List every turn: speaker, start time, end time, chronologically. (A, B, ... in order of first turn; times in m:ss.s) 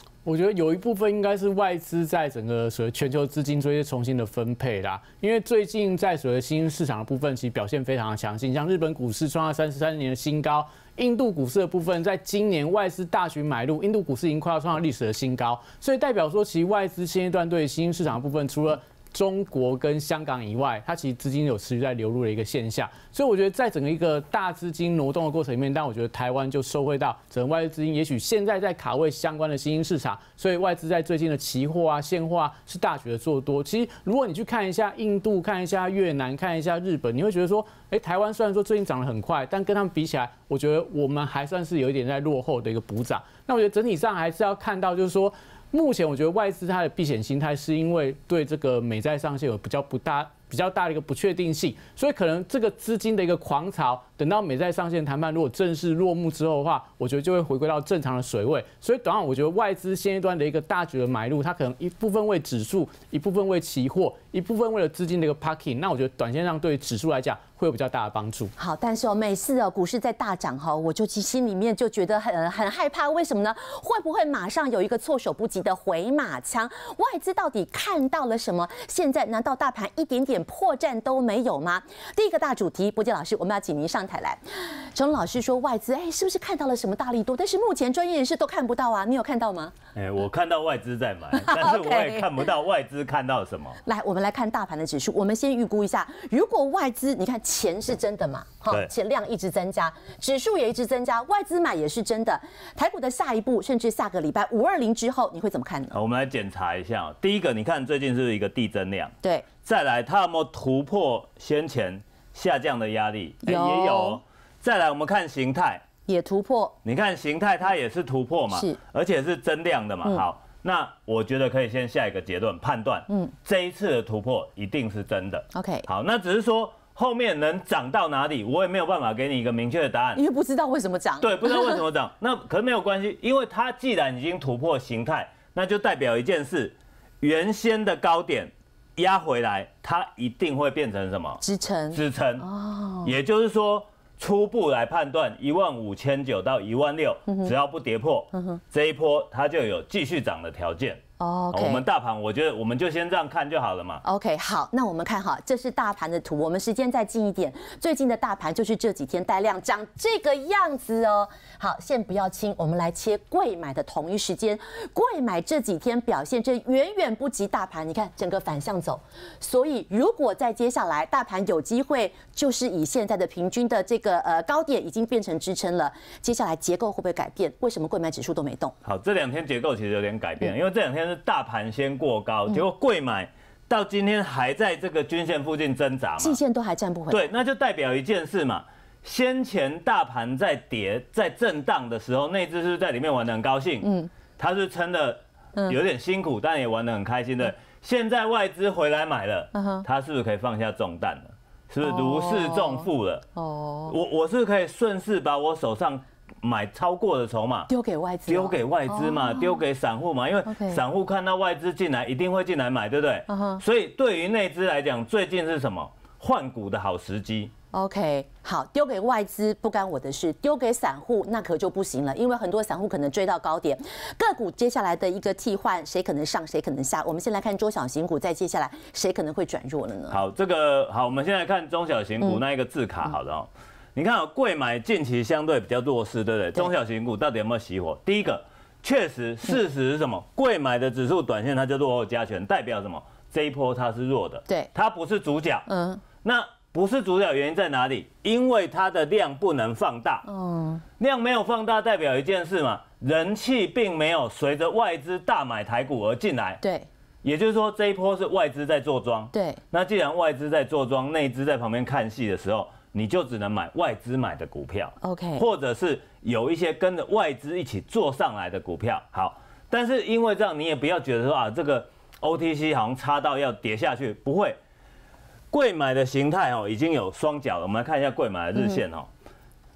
0:00.2-1:08.5 A
1:08.6-1:29.7 B
1:29.9-1:33.8 C
1:31.3-1:32.4 B
1:33.8-1:46.0 B
1:45.9-1:55.8 C
1:49.2-1:49.5 B
1:53.4-1:54.2 B
1:56.1-1:56.8 B
1:56.8-2:10.2 C
1:58.5-1:58.8 B
2:05.5-2:05.9 B
2:10.1-2:11.8 B
2:11.2-2:21.4 C
2:21.4-2:23.1 B
2:21.9-2:22.4 C
2:23.0-2:31.0 C
2:27.3-2:27.5 B
2:28.3-2:28.6 B
2:31.2-2:31.8 B
2:31.5-2:34.0 C
2:34.0-2:58.7 B
2:58.8-3:06.4 C
3:06.2-3:07.3 B
3:07.1-3:13.8 C
3:13.8-3:14.1 B
3:14.4-3:23.2 C
3:19.5-3:19.8 B
3:21.8-3:24.0 B
3:23.9-3:27.7 C
3:27.7-3:29.6 B
3:28.3-3:37.5 C
3:30.5-3:30.8 B
3:33.3-3:33.6 B
3:37.7-3:50.2 B
3:50.1-4:05.6 C
4:05.7-4:06.0 B
4:06.2-4:10.2 C
4:10.2-4:10.8 B
4:11.0-4:16.6 C
4:16.6-4:16.9 B
4:17.2-4:34.6 C
4:19.3-4:19.6 B
4:25.0-4:25.4 B
4:35.5-4:39.1 C